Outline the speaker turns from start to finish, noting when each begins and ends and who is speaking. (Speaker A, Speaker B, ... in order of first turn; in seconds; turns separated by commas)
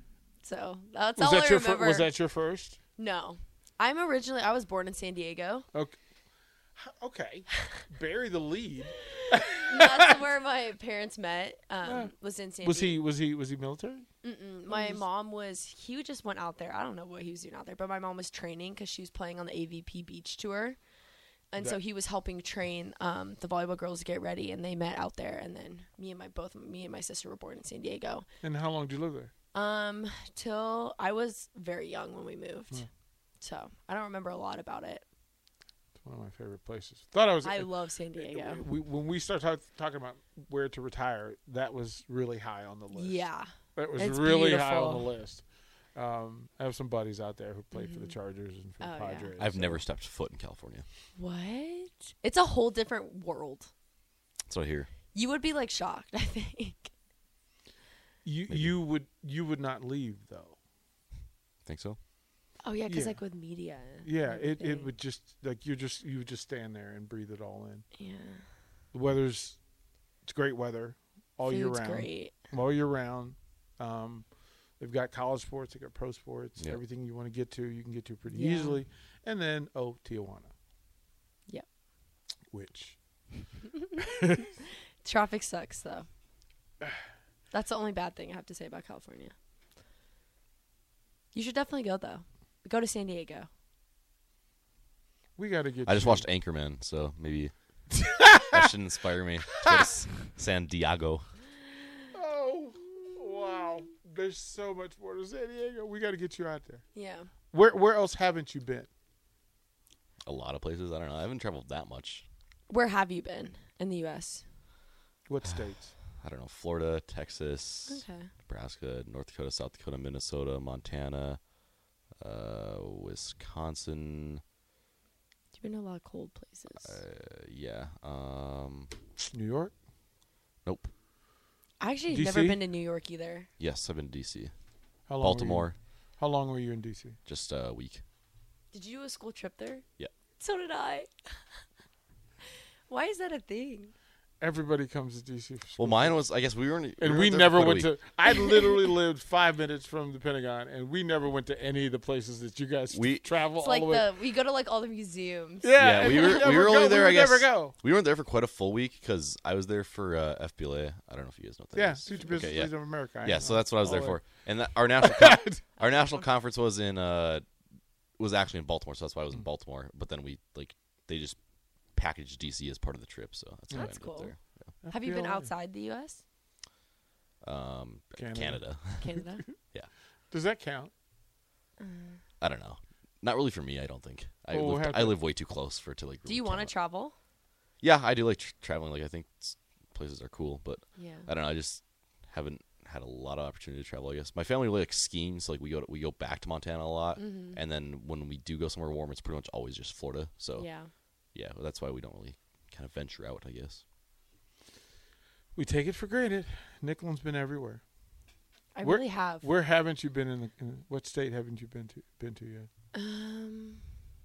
Speaker A: 0.4-2.1, Speaker B: 1.2-2.8, Speaker A: 3.0-5.7, Speaker B: 6.8-10.2, Speaker A: 9.7-13.0, Speaker B: 11.8-14.1, Speaker A: 14.2-20.8, Speaker B: 14.7-15.0, Speaker A: 21.5-28.3, Speaker B: 28.4-29.3, Speaker A: 29.5-32.9, Speaker A: 33.4-35.0, Speaker B: 36.0-45.4, Speaker A: 37.4-38.7, Speaker A: 42.9-45.1, Speaker B: 46.0-49.8, Speaker A: 47.7-48.2, Speaker A: 48.8-49.3, Speaker C: 49.4-50.9, Speaker A: 51.2-53.7, Speaker C: 54.5-54.9, Speaker A: 55.1-56.9, Speaker B: 58.2-60.6, Speaker C: 58.5-58.8, Speaker C: 61.6-62.0, Speaker A: 62.6-64.9, Speaker B: 62.9-63.2, Speaker B: 64.0-67.9, Speaker A: 68.0-68.5, Speaker B: 68.9-69.6, Speaker B: 70.2-74.3, Speaker A: 71.5-72.3, Speaker B: 74.8-80.5, Speaker A: 78.3-78.8, Speaker B: 82.5-83.0, Speaker A: 85.0-86.1, Speaker A: 87.5-89.3, Speaker A: 91.3-93.5, Speaker B: 95.4-96.3, Speaker C: 95.8-101.2, Speaker B: 98.0-98.6, Speaker B: 102.1-106.8, Speaker A: 106.9-107.3, Speaker B: 107.5-108.9, Speaker C: 110.2-112.3, Speaker A: 112.7-114.4, Speaker B: 115.3-116.0, Speaker C: 116.2-121.5, Speaker A: 117.9-118.3, Speaker C: 122.2-124.4, Speaker A: 125.5-127.0, Speaker C: 126.8-128.9, Speaker B: 129.2-129.7, Speaker C: 130.7-130.9, Speaker A: 131.8-133.5, Speaker B: 132.1-132.6, Speaker C: 133.6-134.5, Speaker B: 135.1-137.2, Speaker C: 135.2-135.8, Speaker C: 137.3-138.0, Speaker A: 138.7-139.8, Speaker A: 140.4-141.6, Speaker A: 142.9-143.9, Speaker B: 144.4-146.2, Speaker C: 145.8-147.9, Speaker B: 147.0-154.1, Speaker A: 148.3-148.8, Speaker C: 152.9-153.3, Speaker A: 153.6-156.5, Speaker B: 155.6-157.8, Speaker C: 155.8-167.5, Speaker B: 161.7-164.3, Speaker A: 162.1-162.6, Speaker B: 165.0-165.6, Speaker C: 168.2-171.4, Speaker C: 171.9-174.7, Speaker A: 173.7-174.3, Speaker B: 174.8-175.5, Speaker A: 174.9-176.2, Speaker C: 177.4-179.2, Speaker B: 178.2-179.5, Speaker A: 179.0-179.4, Speaker B: 180.3-180.9, Speaker A: 181.8-182.2, Speaker C: 182.4-186.7, Speaker B: 184.5-185.2, Speaker A: 186.3-187.2, Speaker C: 187.8-200.7, Speaker A: 190.9-191.3, Speaker A: 197.2-197.6, Speaker A: 200.6-200.9, Speaker C: 201.3-203.8, Speaker B: 205.6-207.8, Speaker A: 208.7-209.5, Speaker B: 208.8-212.7, Speaker A: 212.9-213.9